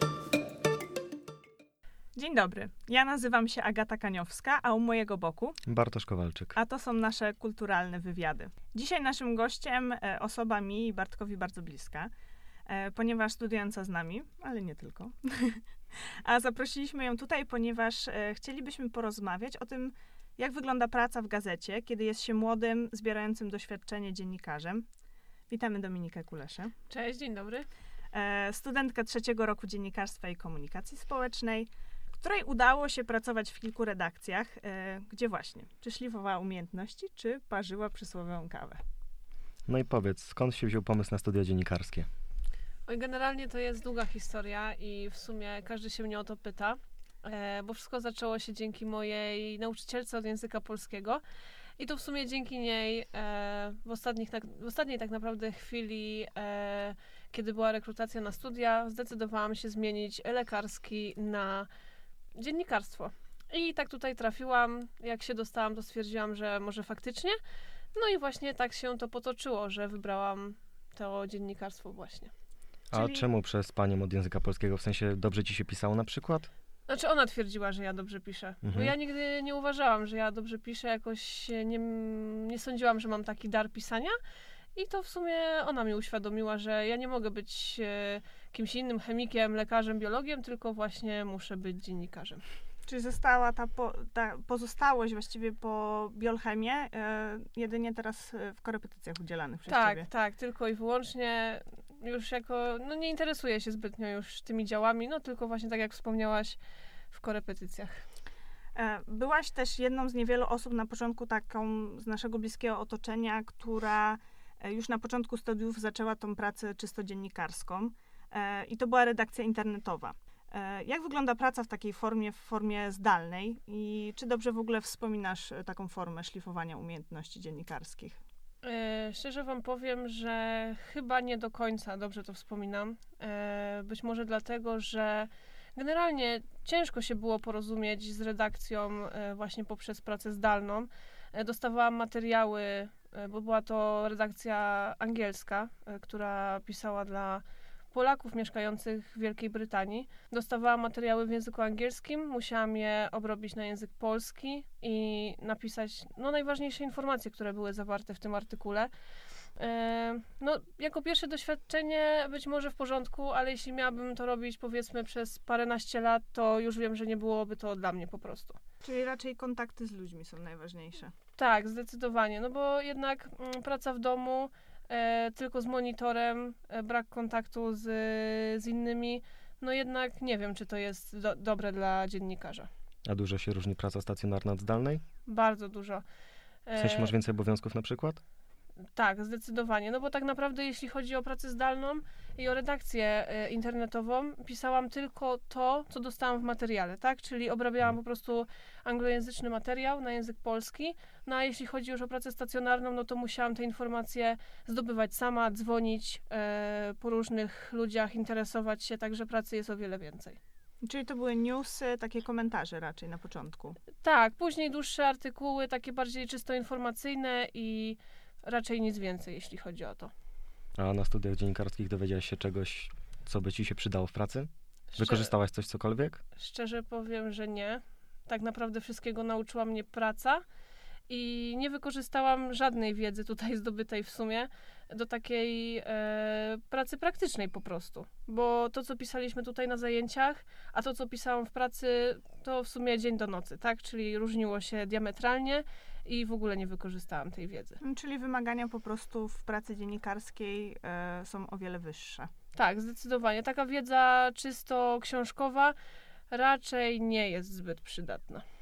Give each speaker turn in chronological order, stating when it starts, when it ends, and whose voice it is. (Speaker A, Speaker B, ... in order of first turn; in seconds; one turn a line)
Speaker A: 2.1-5.6
Speaker B: 5.7-6.6
Speaker A: 6.5-12.1
Speaker A: 12.7-24.9
Speaker A: 25.5-26.7
Speaker C: 26.9-27.7
Speaker A: 28.1-38.8
Speaker B: 39.7-42.1
Speaker C: 42.9-51.2
Speaker C: 51.8-61.7
Speaker C: 62.4-67.4
Speaker C: 67.9-72.3
Speaker A: 72.9-73.2
Speaker B: 72.9-76.5
Speaker C: 76.9-84.2
Speaker B: 78.6-78.9
Speaker C: 84.7-92.4
Speaker A: 92.9-100.1
Speaker C: 99.7-106.6
Speaker C: 107.1-108.0
Speaker A: 108.7-128.2
Speaker C: 128.6-158.9
Speaker C: 159.6-168.6
Speaker A: 168.8-171.1
Speaker C: 171.4-182.7
Speaker B: 183.1-185.0
Speaker C: 185.2-186.0
Speaker C: 186.7-187.1
Speaker B: 186.8-188.2
Speaker C: 188.9-210.4
Speaker A: 210.8-213.8
Speaker C: 214.0-220.1
Speaker B: 220.8-226.2
Speaker C: 224.9-225.3
Speaker C: 226.4-230.4
Speaker C: 231.1-247.8
Speaker A: 247.8-252.3
Speaker C: 252.5-255.7
Speaker C: 256.3-258.4